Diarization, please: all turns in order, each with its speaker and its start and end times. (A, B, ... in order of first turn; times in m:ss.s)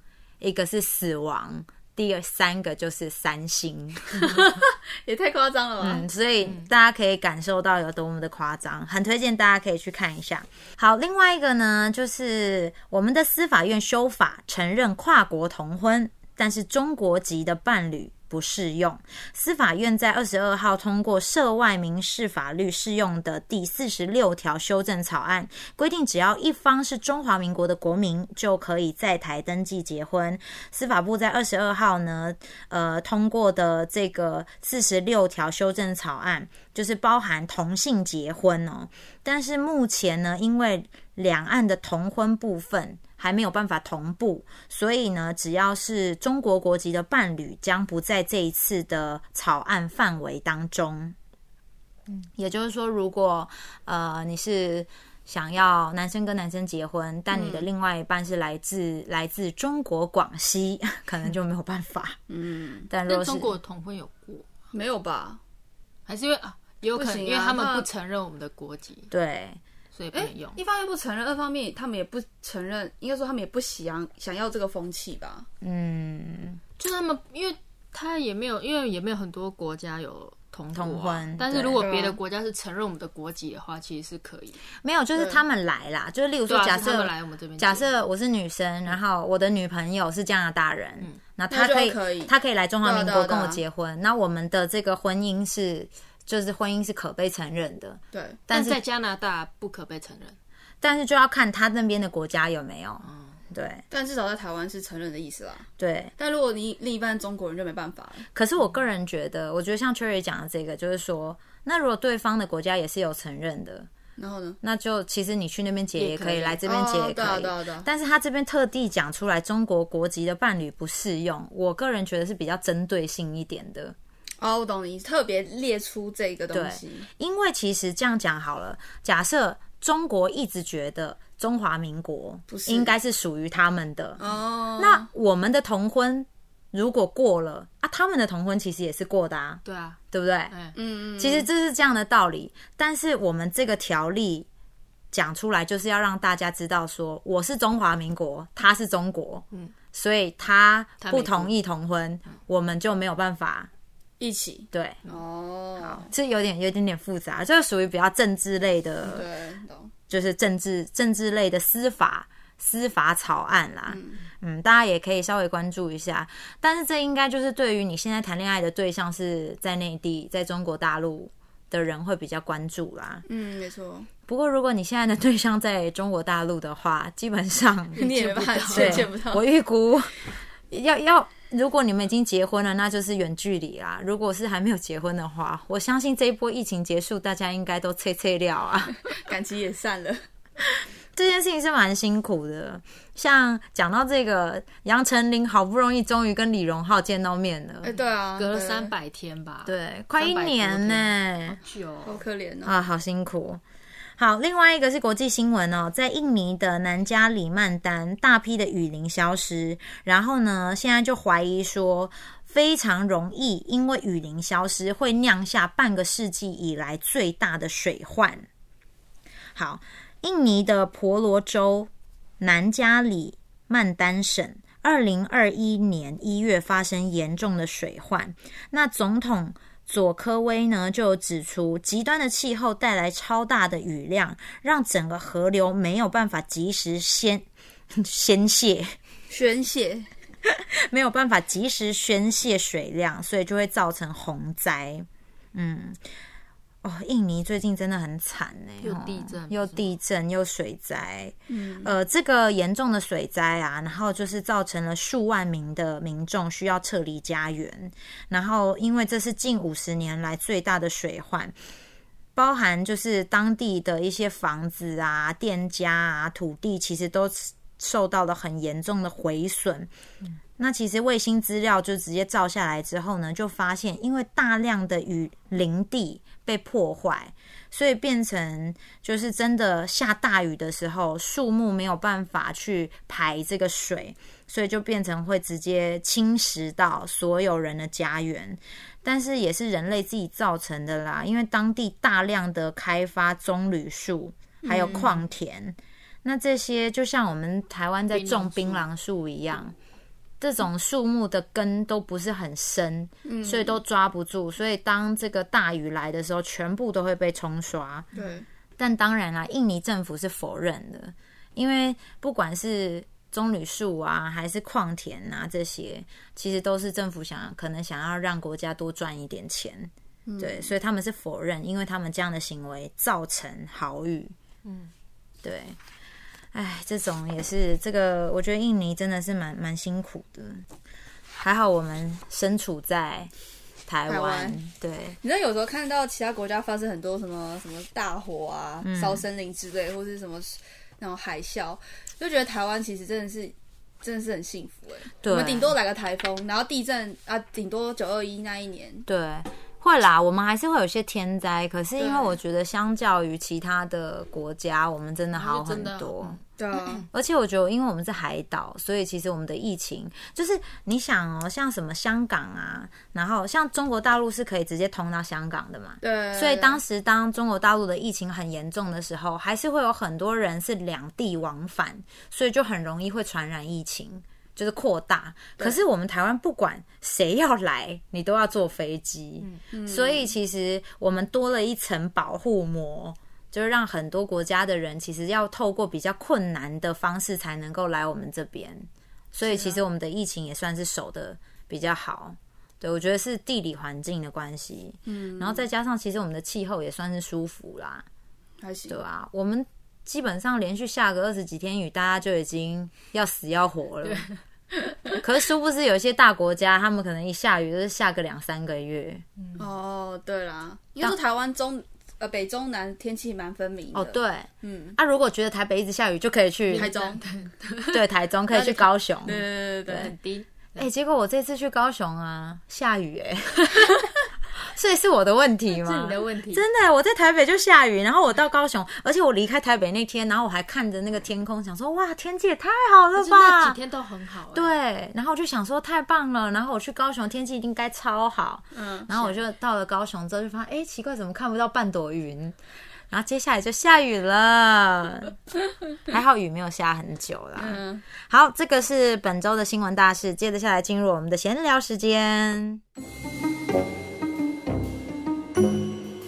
0:00.4-0:04.4 A
0:04.2-0:06.1 B
0:05.8-0:51.2 A
0:52.4-1:02.2 A
0:57.3-0:57.7 B
1:02.3-1:02.9 B
1:02.9-1:03.5 A
1:03.1-1:04.5 C
1:04.7-1:05.4 B
1:06.1-1:09.1 C
1:06.9-1:07.9 B
1:09.1-1:09.6 A
1:09.9-1:10.6 C
1:10.1-1:15.5 B
1:15.6-1:16.6 A
1:16.8-1:24.6 C
1:20.8-1:21.9 A
1:21.8-1:22.2 B
1:24.8-1:38.8 A
1:25.2-1:25.4 B
1:26.5-1:27.9 C
1:31.5-1:32.3 B
1:32.8-1:33.6 B
1:38.1-1:38.4 B
1:38.5-1:40.4 C
1:40.8-1:43.8 A
1:43.0-1:43.4 C
1:43.9-1:48.3 B
1:45.8-1:46.1 A
1:48.3-1:53.9 A
1:54.2-1:54.6 B
1:54.6-2:04.0 A
1:56.0-1:56.6 C
1:56.6-1:57.9 B
2:04.4-2:07.1 B
2:06.5-2:14.2 A
2:12.5-2:12.9 B
2:14.2-2:15.1 B
2:14.8-2:20.5 A
2:19.6-2:20.0 C
2:20.8-2:21.5 B
2:21.2-2:24.5 A
2:25.1-2:33.7 A
2:31.0-2:31.5 C
2:34.2-2:36.1 B
2:34.7-2:35.0 A
2:35.8-2:39.2 A
2:39.0-2:39.9 B
2:40.1-2:53.3 A
2:43.9-2:44.2 B
2:53.3-2:54.1 B
2:54.3-2:58.0 A
2:58.0-2:59.1 C
2:58.0-2:59.4 B
2:58.7-3:00.2 A
3:00.7-3:09.0 A
3:09.1-3:10.2 B
3:11.2-3:17.9 A
3:17.8-3:18.9 B
3:18.4-3:22.2 C
3:19.7-3:21.6 A
3:22.0-3:22.7 B
3:22.6-3:23.6 A
3:24.2-3:38.5 A
3:39.6-3:59.0 A
3:59.3-4:00.1 B
4:00.5-4:06.0 A
4:06.8-4:21.5 A
4:08.8-4:09.9 C
4:11.5-4:11.9 B
4:22.4-4:29.9 A
4:30.6-4:59.8 A
4:54.6-4:55.2 B
4:58.1-4:58.8 C
5:00.4-5:08.1 A
5:03.2-5:03.8 B
5:08.1-5:08.5 B
5:08.8-5:24.3 A
5:20.3-5:20.7 B
5:24.6-5:24.9 C
5:25.4-5:25.8 A
5:26.5-5:30.6 A
5:31.4-5:33.3 A
5:33.9-5:35.2 A
5:34.1-5:34.6 B
5:35.2-5:49.1 B
5:38.8-5:39.2 A
5:45.2-5:45.7 A
5:49.1-5:56.4 A
5:52.0-5:52.4 B
5:55.4-5:57.1 C
5:56.6-5:57.1 B
5:57.1-6:38.1 A
6:06.0-6:06.8 B
6:19.7-6:20.3 B
6:29.4-6:29.8 B
6:35.1-6:35.7 B
6:38.6-6:39.0 B
6:38.9-6:44.3 A
6:44.0-6:44.4 C
6:45.2-6:49.2 A
6:49.4-6:49.6 C
6:49.6-6:55.0 B
6:53.9-6:56.9 A
6:56.7-6:58.0 C
6:56.7-6:57.2 B
6:57.9-7:00.1 A
6:58.5-7:00.1 B
6:59.9-7:00.9 C
7:00.8-7:04.0 A
7:04.6-7:13.8 A
7:05.7-7:06.6 C
7:13.2-7:14.7 C
7:14.5-7:22.6 A
7:18.7-7:19.4 B
7:23.1-7:25.4 A
7:26.1-7:32.8 A
7:27.6-7:28.0 B